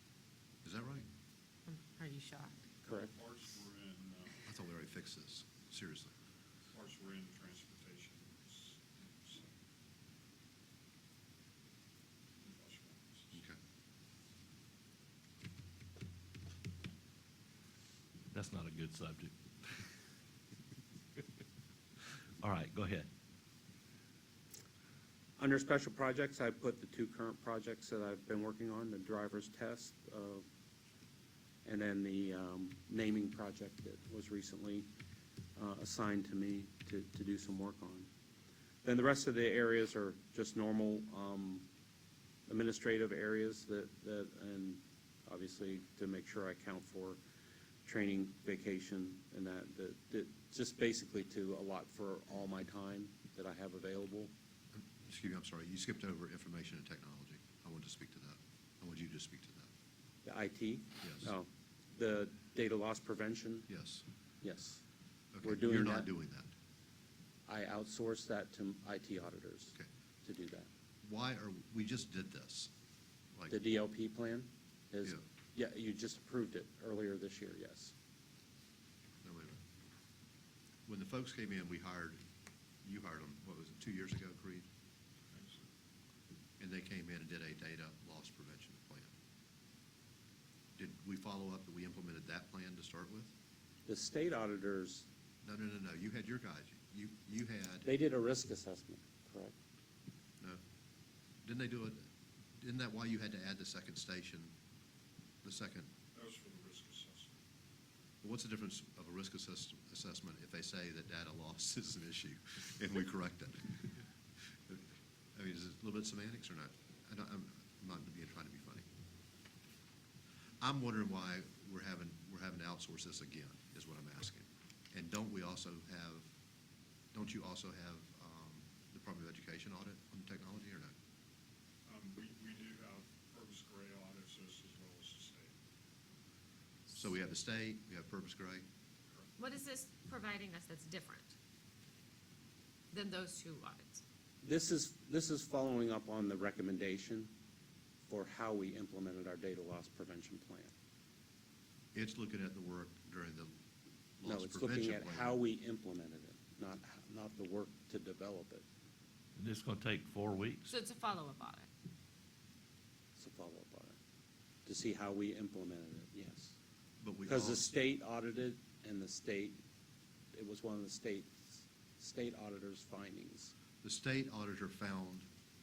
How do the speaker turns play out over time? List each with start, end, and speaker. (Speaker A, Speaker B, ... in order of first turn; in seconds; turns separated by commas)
Speaker A: 0.6-1.1, Speaker B: 1.7-2.5, Speaker C: 2.8-3.1, Speaker D: 3.0-4.4, Speaker A: 4.5-6.1, Speaker D: 6.7-9.6, Speaker D: 12.4-13.4, Speaker E: 18.3-19.9, Speaker E: 22.4-23.1, Speaker C: 25.4-30.4, Speaker C: 31.6-34.9, Speaker C: 35.5-38.1, Speaker C: 38.8-41.7, Speaker C: 42.5-47.2, Speaker C: 47.8-54.3, Speaker A: 54.7-59.7, Speaker C: 60.2-63.7, Speaker A: 61.0-61.3, Speaker A: 63.7-64.0, Speaker C: 64.4-64.8, Speaker A: 65.3-66.5, Speaker C: 65.4-66.1, Speaker C: 67.5-70.7, Speaker A: 71.0-72.7, Speaker C: 73.5-77.9, Speaker A: 79.2-79.6, Speaker A: 80.8-82.2, Speaker A: 82.8-84.7, Speaker D: 85.3-85.7, Speaker A: 86.6-89.1, Speaker A: 90.8-93.3, Speaker C: 93.8-95.1, Speaker A: 95.4-97.9, Speaker C: 97.8-99.5, Speaker A: 101.4-102.0, Speaker A: 102.6-104.5, Speaker A: 105.4-105.9, Speaker D: 106.1-107.4, Speaker A: 108.2-114.0, Speaker A: 114.7-118.8, Speaker A: 120.6-126.3, Speaker A: 127.1-130.9, Speaker D: 131.8-135.5, Speaker A: 136.9-138.6, Speaker D: 139.1-139.3, Speaker B: 139.4-141.3, Speaker B: 142.9-144.0, Speaker C: 144.4-147.3, Speaker C: 148.1-150.7, Speaker A: 151.9-153.5, Speaker A: 154.2-155.4, Speaker C: 154.2-158.6, Speaker E: 159.4-160.7, Speaker B: 160.7-161.7, Speaker C: 163.2-164.0, Speaker C: 164.7-166.5, Speaker A: 167.0-167.7, Speaker C: 167.3-169.6, Speaker C: 170.3-173.5, Speaker A: 173.8-175.3